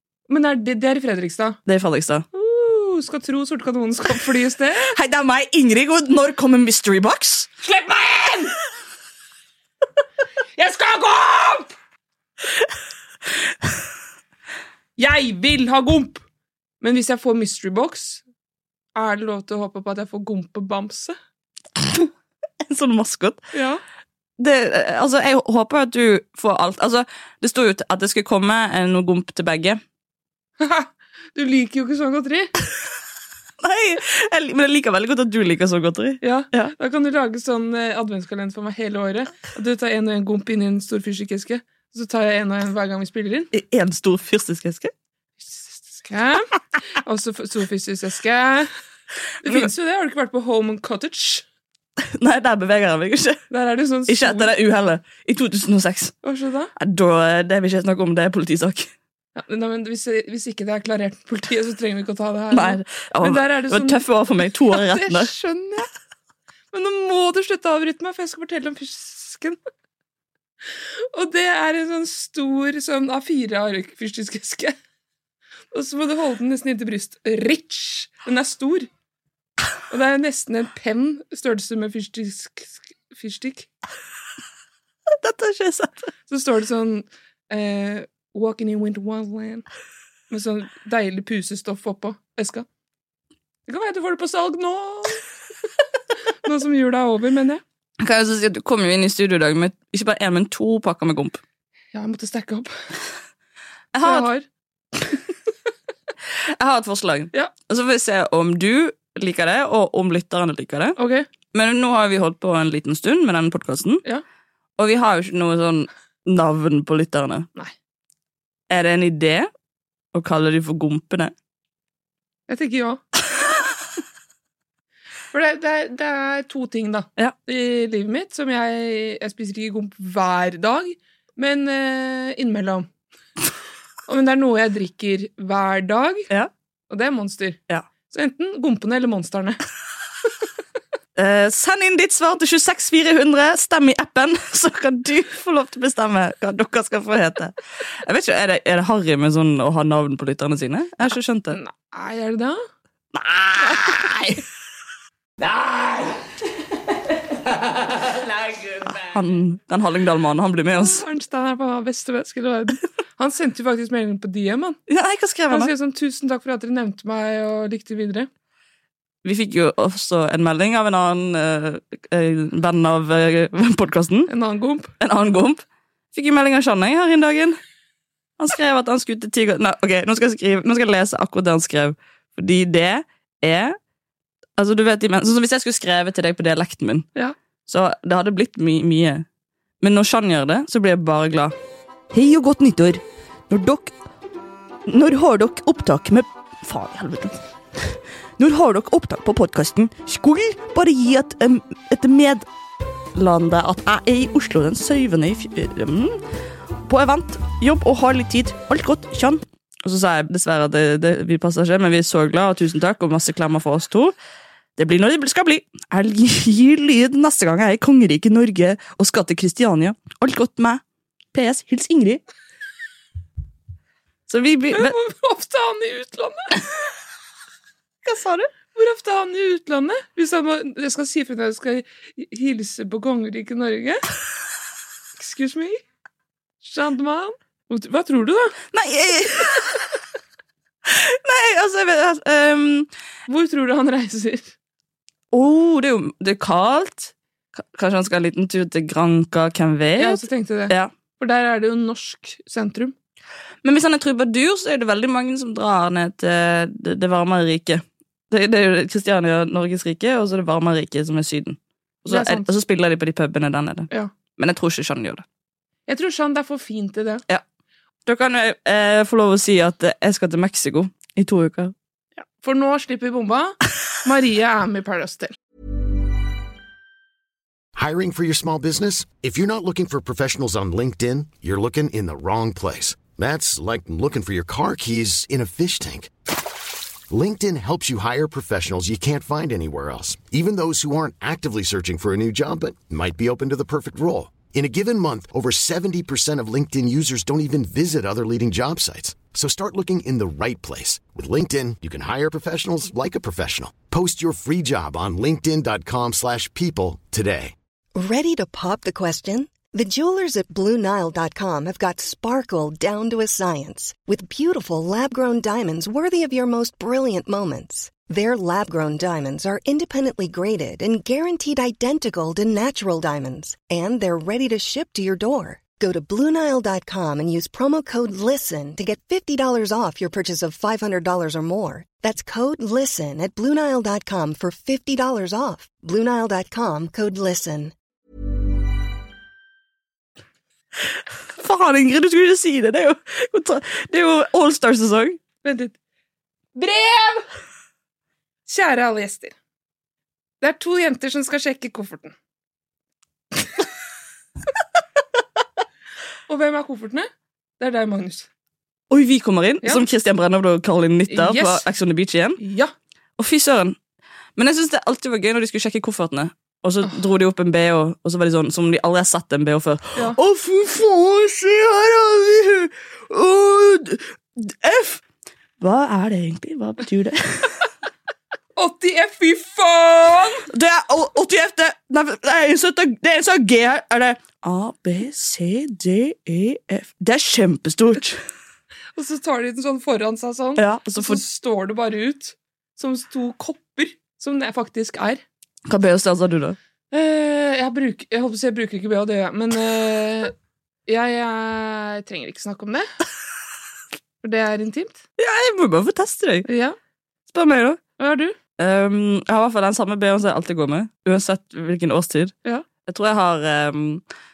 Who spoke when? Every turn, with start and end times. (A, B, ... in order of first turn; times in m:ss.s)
0:00.3-0:01.6 A
0:01.6-0:02.2 B
0:02.3-0:04.9 A
0:04.9-0:07.5 B
0:07.6-0:08.5 A
0:10.6-0:11.7 A
0:15.0-0:16.2 A
0:16.8-0:18.2 A
0:19.0-0:21.2 A
0:21.8-0:22.1 B
0:22.6-0:23.4 B
0:23.5-0:23.8 A
0:24.4-0:29.8 B
0:30.6-0:32.5 A
0:33.6-0:36.7 B
0:36.2-0:43.5 A
0:43.5-0:44.9 B
0:45.4-0:46.4 A
0:46.9-0:48.7 A
0:49.4-0:51.4 A
0:52.2-0:53.4 B
0:53.5-0:54.5 A
0:54.1-0:56.1 B
0:56.2-0:56.7 A
0:56.8-0:58.9 B
0:59.4-1:04.0 A
1:02.5-1:05.3 B
1:04.7-1:05.9 A
1:06.7-1:09.6 A
1:11.1-1:14.8 A
1:15.7-1:18.9 A
1:19.9-1:23.7 A
1:25.2-1:26.1 B
1:26.3-1:29.6 A
1:30.3-1:32.6 A
1:33.7-1:35.2 A
1:36.4-1:37.6 A
1:38.0-1:41.4 B
1:41.9-1:42.7 A
1:43.9-1:44.3 B
1:44.0-1:44.4 A
1:46.5-1:51.0 B
1:51.0-1:51.3 A
1:51.5-1:54.0 B
1:54.8-1:57.5 B
1:58.7-1:59.5 B
2:00.1-2:01.3 B
2:02.5-2:03.0 A
2:05.3-2:12.9 A
2:14.1-2:16.3 A
2:16.9-2:19.6 A
2:21.2-2:31.6 B
2:31.1-2:32.6 A
2:33.1-2:34.2 B
2:33.6-2:34.3 A
2:38.8-2:41.0 B
2:40.8-2:44.8 A
2:44.9-2:45.7 B
2:45.5-2:48.3 A
2:49.2-2:54.3 B
2:54.3-2:54.9 A
2:55.0-2:55.6 B
2:56.1-2:57.6 B
2:58.4-3:03.8 B
3:04.6-3:07.1 B
3:07.7-3:09.2 B
3:09.8-3:11.5 B
3:12.1-3:13.9 B
3:14.9-3:22.4 B
3:23.1-3:26.2 B
3:26.8-3:34.1 B
3:34.8-3:40.8 B
3:41.3-3:42.2 B
3:44.3-3:44.9 B
3:44.7-3:46.5 A
3:48.0-3:48.5 B
3:48.7-3:54.0 A
3:55.2-3:55.8 A
3:56.6-3:58.6 A
3:58.7-3:59.8 B
4:00.8-4:02.9 B
4:03.3-4:04.5 A
4:05.3-4:10.9 B
4:10.0-4:12.9 A
4:13.6-4:25.2 B
4:22.1-4:22.5 A
4:25.9-4:27.2 A
4:28.0-4:31.7 B
4:32.3-4:35.3 A
4:37.7-4:46.1 C
4:47.1-5:07.5 C
5:07.9-5:37.7 D
5:41.4-5:45.2 B
5:45.4-5:45.7 A
5:46.5-5:47.2 A
5:48.5-5:49.3 A
5:50.4-5:52.1 A
5:56.3-5:58.3 A
5:58.9-6:02.4 B
6:01.1-6:01.6 A
6:02.4-6:02.7 A
6:03.2-6:03.8 B
6:04.4-6:15.0 B
6:15.6-6:17.7 B
6:18.6-6:20.4 A
6:20.5-6:28.2 B
6:29.0-6:35.2 A
6:30.6-6:31.2 B
6:35.7-6:36.6 B
6:36.9-6:40.3 A
6:40.9-6:42.9 A
6:44.2-6:45.0 A
6:45.2-6:46.5 B
6:46.5-6:46.8 A
6:47.3-6:47.8 B
6:48.0-6:48.4 A
6:48.6-6:54.0 B